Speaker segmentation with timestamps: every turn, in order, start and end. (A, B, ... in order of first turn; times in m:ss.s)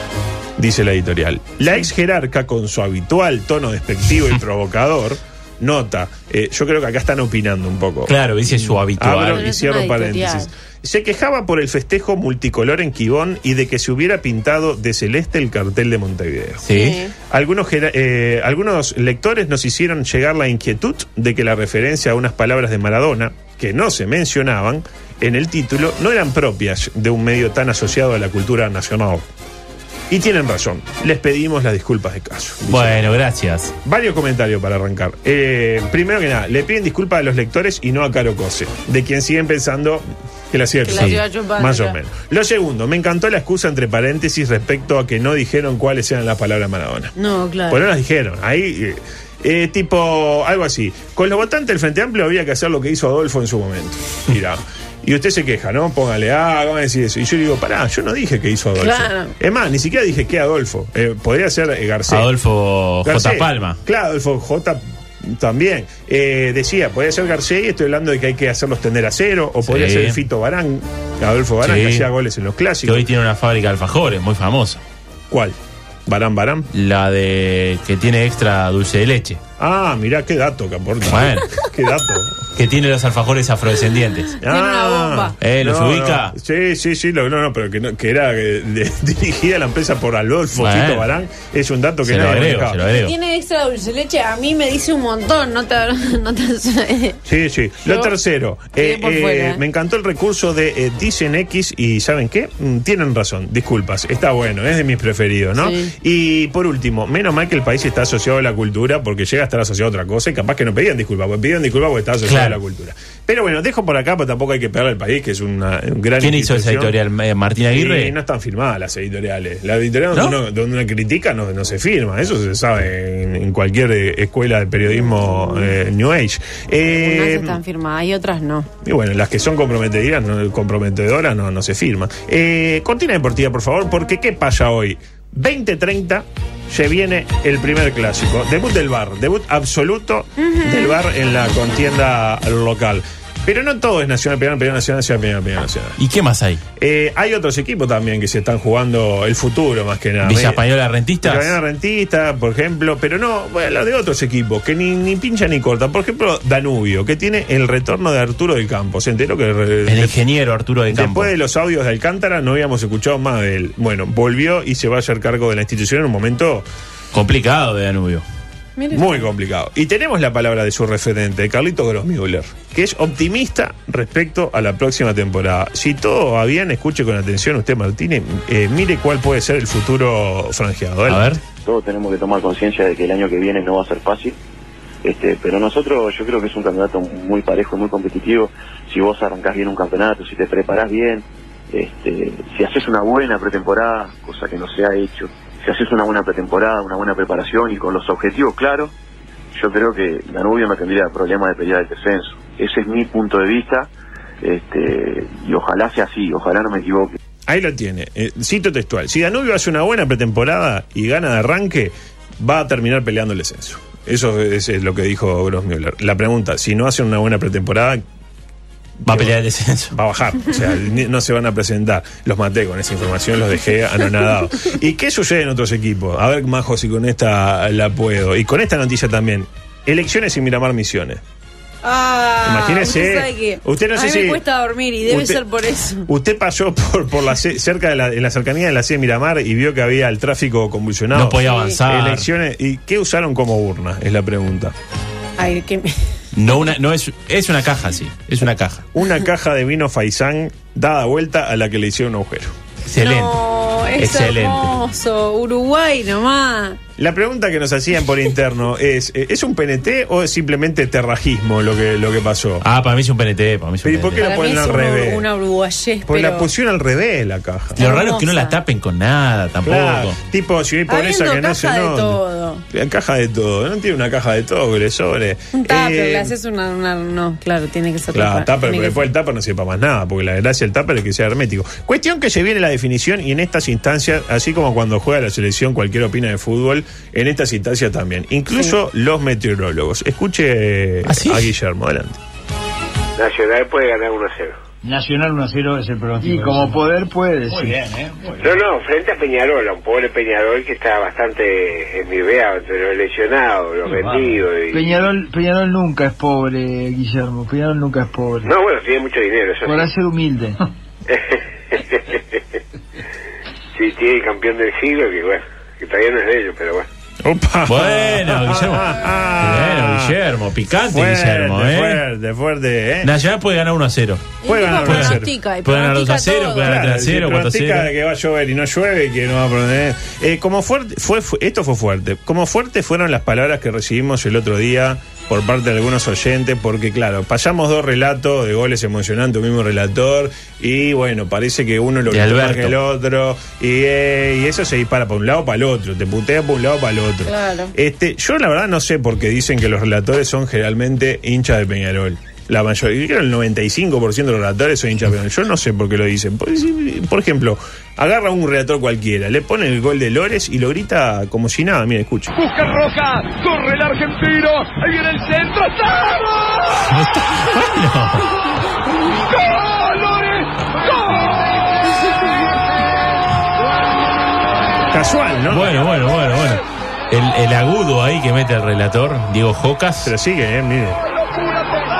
0:00.6-0:16.6 A
0:08.1-0:09.4 B
0:09.3-0:10.5 C
0:16.6-0:17.0 B
0:16.7-0:17.1 C
0:17.2-0:29.2 A
0:30.1-0:33.2 A
0:32.7-0:33.7 B
0:33.8-0:47.1 A
0:40.8-0:42.0 C
0:40.9-0:41.2 B
0:47.1-0:47.8 C
0:47.7-1:02.3 A
0:58.8-0:59.3 C
1:02.1-1:03.8 B
1:03.0-1:13.0 A
1:09.6-1:10.2 B
1:11.6-1:12.1 B
1:12.8-1:14.8 B
1:15.3-1:16.7 A
1:16.7-1:19.4 B
1:19.6-1:22.4 A
1:21.1-1:21.5 B
1:22.6-1:24.4 B
1:24.4-1:32.8 A
1:24.4-1:25.4 C
1:25.4-1:26.3 B
1:30.6-1:31.1 B
1:32.0-1:33.1 B
1:32.9-1:37.2 C
1:37.2-1:56.9 A
1:37.8-1:38.1 C
1:38.8-1:39.6 C
1:45.6-1:45.9 C
1:52.2-1:52.6 B
1:56.2-1:58.2 B
1:57.7-2:07.6 A
2:00.1-2:00.4 B
2:06.8-2:08.7 C
2:08.8-2:26.0 A
2:20.4-2:20.7 C
2:26.0-2:26.6 B
2:26.8-2:30.6 A
2:30.2-2:31.6 B
2:31.2-2:40.1 A
2:39.9-2:41.3 B
2:40.9-2:46.6 A
2:47.1-2:48.2 B
2:48.8-2:49.3 C
2:48.9-3:01.3 A
3:01.1-3:01.4 B
3:01.6-3:04.4 D
3:05.0-3:18.9 D
3:19.5-3:23.9 D
3:24.4-3:27.1 D
3:27.5-3:38.0 A
3:39.0-3:39.3 A
3:39.0-3:39.9 B
3:39.9-3:51.2 A
3:51.8-3:56.1 C
3:52.4-3:54.4 A
3:55.1-3:55.4 A
3:56.1-4:04.7 A
4:01.1-4:02.3 B
4:01.4-4:01.8 C
4:05.4-4:06.0 C
4:06.3-4:08.9 B
4:08.9-4:12.5 A
4:12.8-4:13.4 B
4:13.0-4:16.8 C
4:14.0-4:14.7 B
4:17.0-4:22.6 A
4:22.6-4:24.3 B
4:23.8-4:25.2 A
4:24.2-4:26.5 C
4:26.1-4:27.8 A
4:27.8-4:30.2 B
4:27.8-4:28.6 C
4:29.6-4:32.2 A
4:30.9-4:32.6 C
4:32.7-4:36.3 A
4:35.5-4:39.0 C
4:38.1-4:52.2 A
4:51.1-4:51.5 B
4:53.2-4:54.6 E
4:54.8-4:58.6 F
4:58.4-5:04.9 E
5:03.9-5:08.5 F
5:08.4-5:09.9 E
5:09.6-5:10.6 F
5:11.1-5:12.4 E
5:13.8-5:16.9 E
5:17.2-5:20.2 A
5:17.6-5:18.8 B
5:19.4-5:22.0 B
5:20.9-5:23.1 A
5:23.0-5:27.9 B
5:24.4-5:26.7 C
5:24.4-5:25.3 A
5:26.6-6:02.3 A
5:42.1-5:42.8 B
5:47.2-5:47.7 C
6:03.2-6:05.6 G
6:06.8-6:08.3 B
6:14.9-6:15.7 A
6:15.5-6:20.1 B
6:20.0-6:21.0 A